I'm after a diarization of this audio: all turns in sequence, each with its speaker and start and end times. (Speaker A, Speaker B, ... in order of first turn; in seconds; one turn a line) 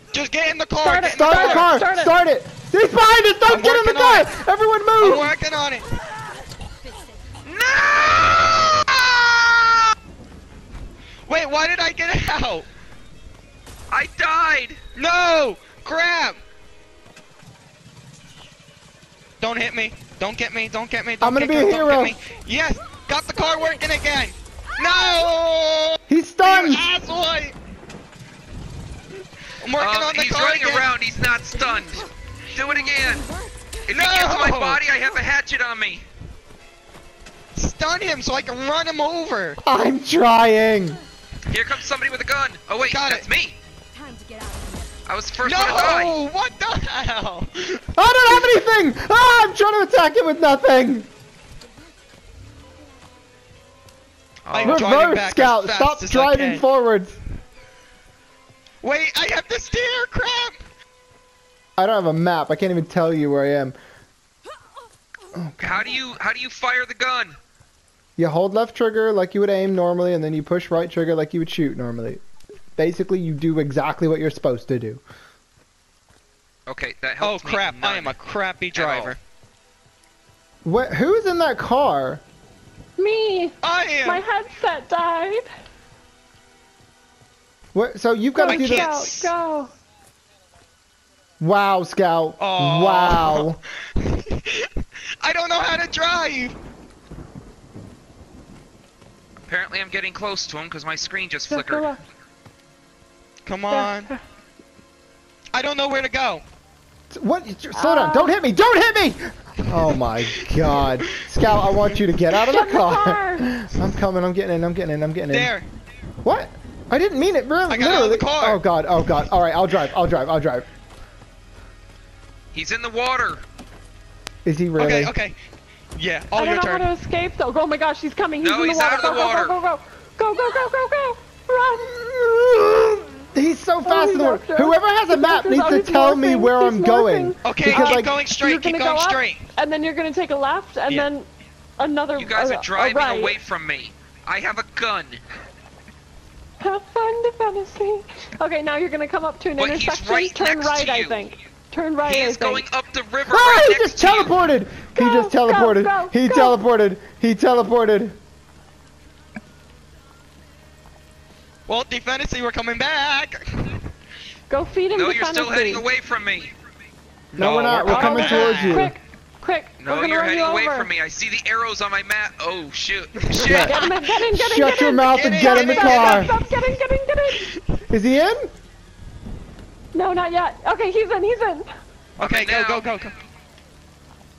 Speaker A: 0.1-1.7
Speaker B: 0.8-2.1
Speaker C: 1.1-5.3
Speaker A: 3.5-4.3
Speaker A: 5.0-5.9
Speaker D: 7.4-8.9
Speaker A: 8.9-9.7
Speaker A: 11.3-12.7
Speaker D: 13.9-14.8
Speaker A: 14.9-16.4
Speaker A: 19.4-27.6
Speaker C: 21.2-22.1
Speaker C: 26.1-26.9
Speaker A: 29.6-30.9
Speaker D: 29.8-33.2
Speaker D: 33.9-36.0
Speaker A: 33.9-34.9
Speaker A: 37.5-39.6
Speaker C: 39.6-41.0
Speaker D: 41.5-43.6
Speaker A: 42.9-43.3
Speaker D: 45.0-46.2
Speaker A: 45.4-47.8
Speaker C: 48.0-51.1
Speaker D: 54.5-54.8
Speaker A: 54.5-56.6
Speaker C: 54.6-57.2
Speaker A: 58.8-60.6
Speaker C: 61.8-63.8
Speaker C: 65.3-65.9
Speaker D: 65.6-67.4
Speaker C: 68.2-72.2
Speaker C: 72.8-75.0
Speaker D: 76.7-78.2
Speaker A: 77.2-79.2
Speaker D: 78.7-79.2
Speaker C: 80.6-82.2
Speaker B: 83.0-85.5
Speaker A: 83.6-84.2
Speaker C: 87.7-89.1
Speaker B: 88.3-89.7
Speaker A: 88.5-89.3
Speaker C: 91.4-93.6
Speaker A: 92.4-94.7
Speaker A: 95.2-96.5
Speaker D: 99.5-101.9
Speaker B: 101.5-102.0
Speaker A: 103.4-104.1
Speaker B: 103.7-104.2
Speaker A: 105.5-106.4
Speaker C: 107.1-115.5
Speaker B: 107.7-108.4
Speaker B: 112.5-113.5
Speaker A: 115.3-115.7
Speaker C: 116.2-120.7
Speaker A: 117.7-118.6
Speaker D: 122.5-123.4
Speaker C: 124.5-125.1
Speaker A: 124.8-125.4
Speaker A: 125.9-126.9
Speaker B: 126.3-132.2
Speaker D: 128.4-129.5
Speaker C: 132.3-132.8
Speaker C: 133.3-138.1
Speaker B: 133.8-143.4
Speaker A: 137.4-139.5
Speaker D: 142.2-145.2
Speaker B: 146.6-152.7
Speaker D: 149.6-151.2
Speaker D: 152.1-154.4
Speaker C: 153.3-158.2
Speaker B: 154.9-156.6
Speaker A: 161.7-163.8
Speaker B: 164.5-165.8
Speaker D: 164.9-166.5
Speaker C: 167.4-168.9
Speaker D: 167.4-168.8
Speaker B: 167.8-170.9
Speaker D: 169.8-173.6
Speaker A: 173.3-173.8
Speaker C: 173.4-173.8
Speaker B: 173.4-177.5
Speaker C: 174.3-176.4
Speaker A: 175.1-176.3
Speaker C: 177.9-178.5
Speaker B: 179.9-181.7
Speaker A: 182.2-183.1
Speaker D: 182.2-182.9